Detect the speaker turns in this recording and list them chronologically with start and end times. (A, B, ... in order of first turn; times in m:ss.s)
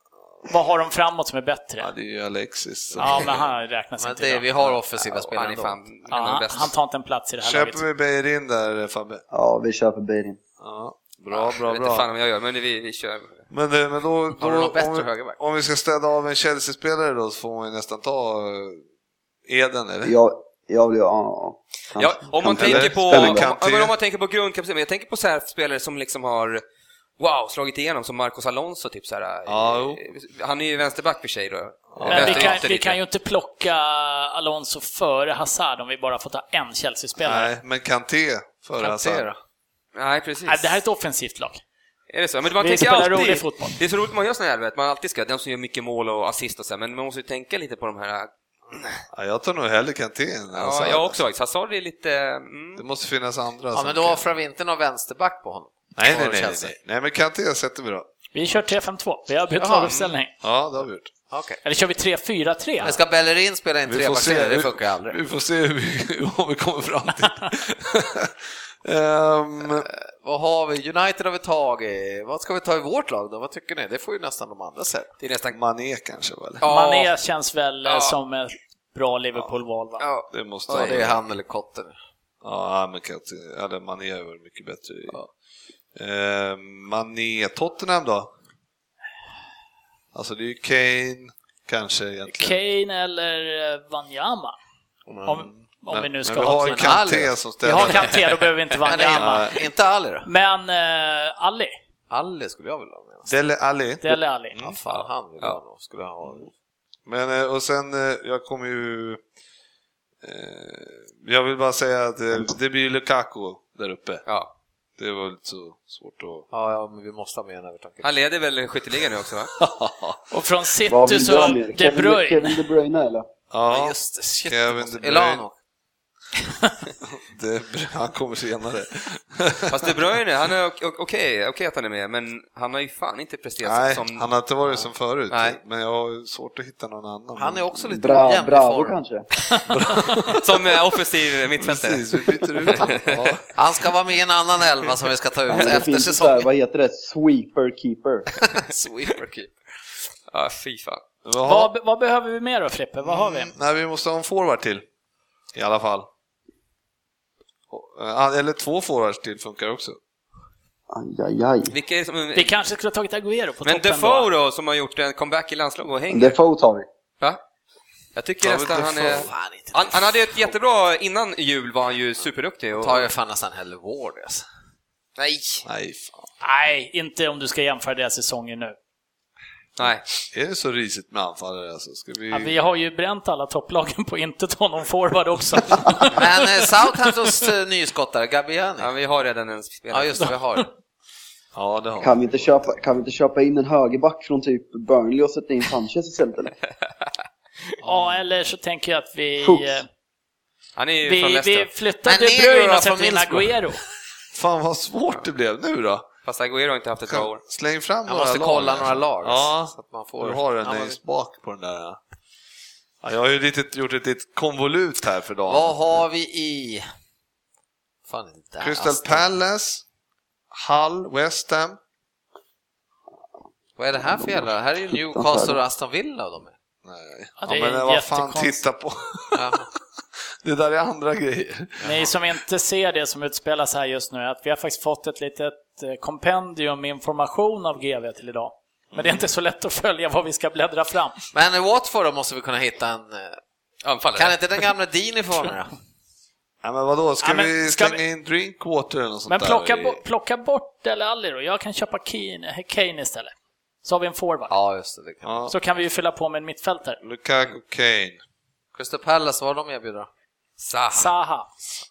0:00.5-0:01.9 A
0:01.8-0:03.5 B
0:03.0-0:04.6 A
0:04.0-0:05.8 C
0:05.0-0:06.7 D
0:06.1-0:07.8 A
0:07.4-0:09.2 B
0:09.3-0:10.4 E
0:10.6-0:12.1 B
0:11.3-0:13.5 D
0:13.5-0:18.8 B
0:14.4-0:15.4 C
0:19.5-0:20.2 B
0:20.0-0:23.4 E
0:22.0-0:26.6 D
0:22.4-0:23.9 B
0:27.2-0:33.0 D
0:29.5-0:30.0 B
0:31.9-0:32.6 B
0:32.0-0:37.5 A
0:37.2-0:39.3 B
0:38.8-0:39.4 C
0:40.0-0:40.8 D
0:40.5-0:41.6 A
0:42.1-0:49.0 D
0:42.6-0:43.8 A
0:49.1-0:51.2 B
0:50.5-0:52.8 D
0:52.8-0:54.2 B
0:53.7-0:56.7 C
0:56.0-0:58.1 B
0:58.3-1:00.3 A
0:59.6-1:00.0 C
0:59.9-1:01.1 B
1:01.3-1:01.6 C
1:01.6-1:03.0 A
1:02.8-1:05.2 C
1:03.9-1:09.9 B
1:09.8-1:15.1 C
1:15.2-1:15.6 D
1:15.5-1:16.6 B
1:16.6-1:17.1 D
1:16.6-1:20.1 A
1:17.8-1:18.2 D
1:20.0-1:21.1 D
1:20.3-1:21.2 B
1:20.7-1:22.0 C
1:22.4-1:25.2 B
1:26.0-1:28.3 B
1:30.1-1:32.6 B
1:32.3-1:34.6 A
1:35.2-1:38.2 B
1:35.3-1:37.1 A
1:36.6-1:38.2 C
1:37.6-1:39.6 A
1:38.8-1:40.3 C
1:39.0-1:39.6 B
1:40.2-1:41.8 A
1:42.1-1:43.4 C
1:43.3-1:44.8 B
1:44.0-1:44.6 A
1:44.6-1:46.5 C
1:47.1-1:49.2 B
1:50.2-1:54.2 B
1:54.3-1:54.5 D
1:55.0-1:56.5 B
1:56.5-1:58.1 C
1:58.0-1:59.5 D
1:59.6-2:00.2 B
2:00.3-2:02.6 A
2:00.9-2:03.3 E
2:03.5-2:05.4 B
2:03.7-2:05.6 C
2:07.1-2:10.0 B
2:09.7-2:14.3 D
2:13.6-2:17.7 B
2:15.3-2:15.6 D
2:17.4-2:19.0 C
2:17.9-2:19.3 E
2:19.7-2:20.5 B
2:20.3-2:23.3 D
2:21.6-2:23.4 B
2:23.6-2:26.5 C
2:25.5-2:28.3 E
2:28.4-2:29.5 C
2:29.1-2:29.3 D
2:30.3-2:31.0 D
2:31.2-2:31.7 B
2:31.4-2:33.5 A
2:33.0-2:34.8 B
2:35.5-2:36.1 B
2:37.7-2:40.0 B
2:40.9-2:41.7 E
2:41.7-2:42.6 D
2:42.4-2:44.3 A
2:43.6-2:46.4 D
2:46.1-2:46.9 E
2:48.2-2:53.1 D
2:48.4-2:49.3 B
2:49.0-2:50.2 C
2:52.8-2:54.5 C
2:55.2-2:55.7 D
2:55.7-2:56.3 B
2:56.4-2:58.8 A
2:59.8-3:00.0 D
2:59.8-3:02.6 B
3:02.3-3:06.5 A
3:06.1-3:08.9 C
3:08.8-3:10.3 D
3:09.9-3:10.7 C
3:11.6-3:12.5 B
3:12.0-3:16.5 E
3:17.8-3:19.9 A
3:19.4-3:19.8 E
3:20.8-3:21.7 D
3:21.0-3:23.8 A
3:22.0-3:23.6 C
3:24.3-3:26.1 B
3:26.2-3:27.4 D
3:27.1-3:32.0 B
3:28.1-3:30.9 C
3:33.0-3:35.8 B
3:35.5-3:36.8 C
3:38.1-3:39.3 C
3:38.6-3:39.8 B
3:40.5-3:41.8 B
3:43.8-3:46.5 C
3:44.1-3:45.6 E
3:46.8-3:49.7 B
3:47.4-3:48.6 A
3:49.4-3:49.7 C
3:50.4-3:51.9 B
3:51.8-4:01.2 A
3:58.9-3:59.2 B
4:01.3-4:03.4 C
4:03.8-4:04.4 D
4:04.1-4:05.7 C
4:06.6-4:10.0 B
4:07.2-4:08.0 A
4:09.3-4:14.5 A
4:14.5-4:15.5 C
4:15.2-4:15.5 B
4:15.5-4:17.0 A
4:17.0-4:18.2 B
4:18.7-4:20.1 C
4:20.6-4:21.1 D
4:20.9-4:21.5 A